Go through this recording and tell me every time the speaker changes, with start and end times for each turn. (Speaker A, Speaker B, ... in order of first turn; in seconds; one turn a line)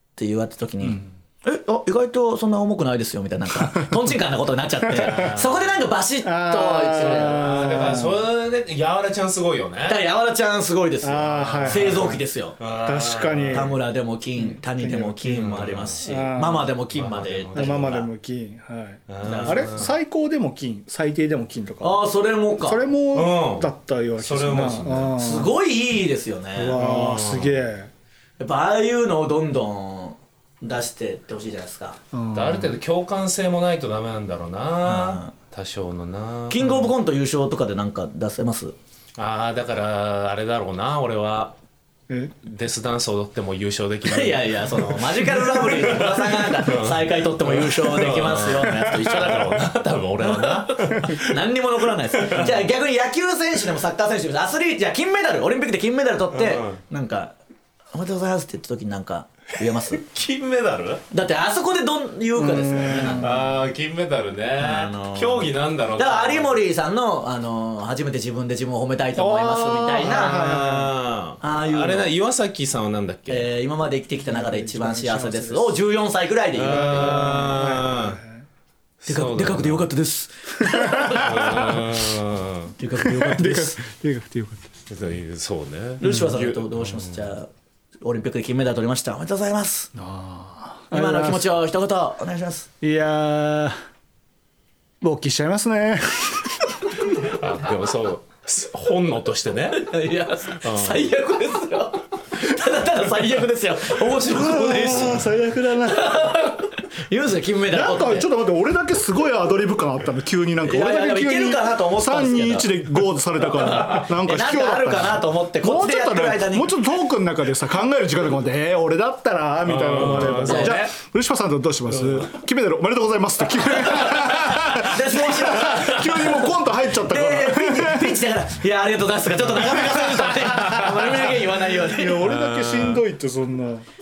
Speaker A: 0.2-8.1
Speaker B: 5.0-5.8
Speaker C: 6.2-8.1
Speaker B: 7.0-10.1
Speaker A: 9.9-12.6
Speaker C: 11.0-12.1
Speaker B: 11.3-13.7
Speaker C: 12.8-13.8
Speaker A: 13.5-18.1
Speaker C: 14.4-16.7
Speaker B: 15.3-16.1
Speaker B: 16.9-18.0
Speaker C: 17.5-22.1
Speaker B: 19.1-19.9
Speaker A: 19.2-19.9
Speaker A: 21.8-22.8
Speaker C: 22.6-25.5
Speaker B: 23.1-25.2
Speaker A: 25.1-26.8
Speaker C: 26.6-27.9
Speaker B: 26.8-27.6
Speaker A: 28.4-32.0
Speaker C: 32.1-32.8
Speaker B: 32.3-36.8
Speaker A: 34.8-35.3
Speaker A: 36.5-38.8
Speaker B: 39.2-41.5
Speaker C: 42.1-42.3
Speaker B: 42.4-51.4
Speaker A: 44.0-57.4
Speaker B: 52.1-52.6
Speaker B: 56.3-56.8
Speaker A: 57.9-60.0
Speaker B: 59.8-61.0
Speaker A: 61.1-63.5
Speaker C: 62.4-63.3
Speaker B: 63.2-66.6
Speaker A: 64.6-70.6
Speaker B: 69.3-73.5
Speaker C: 69.4-70.9
Speaker A: 71.4-72.1
Speaker A: 73.3-77.5
Speaker C: 74.2-75.8
Speaker B: 76.5-78.2
Speaker C: 76.7-78.4
Speaker B: 79.0-79.9
Speaker A: 79.1-81.8
Speaker B: 81.1-82.8
Speaker A: 82.8-83.8
Speaker C: 83.0-84.8
Speaker B: 84.9-87.3
Speaker A: 86.0-87.5
Speaker C: 86.0-86.3
Speaker A: 88.0-89.9
Speaker C: 90.0-91.6
Speaker A: 90.9-92.7
Speaker C: 92.8-93.8
Speaker C: 95.0-96.8
Speaker B: 97.1-99.9
Speaker A: 99.7-105.2
Speaker B: 100.5-101.1
Speaker C: 104.3-106.2
Speaker A: 105.9-108.3
Speaker C: 107.7-128.2
Speaker A: 110.6-112.7
Speaker A: 113.6-116.8
Speaker B: 119.7-120.9
Speaker A: 120.1-120.8
Speaker A: 124.1-126.5
Speaker A: 127.0-132.3
Speaker C: 131.7-133.9
Speaker B: 132.2-133.0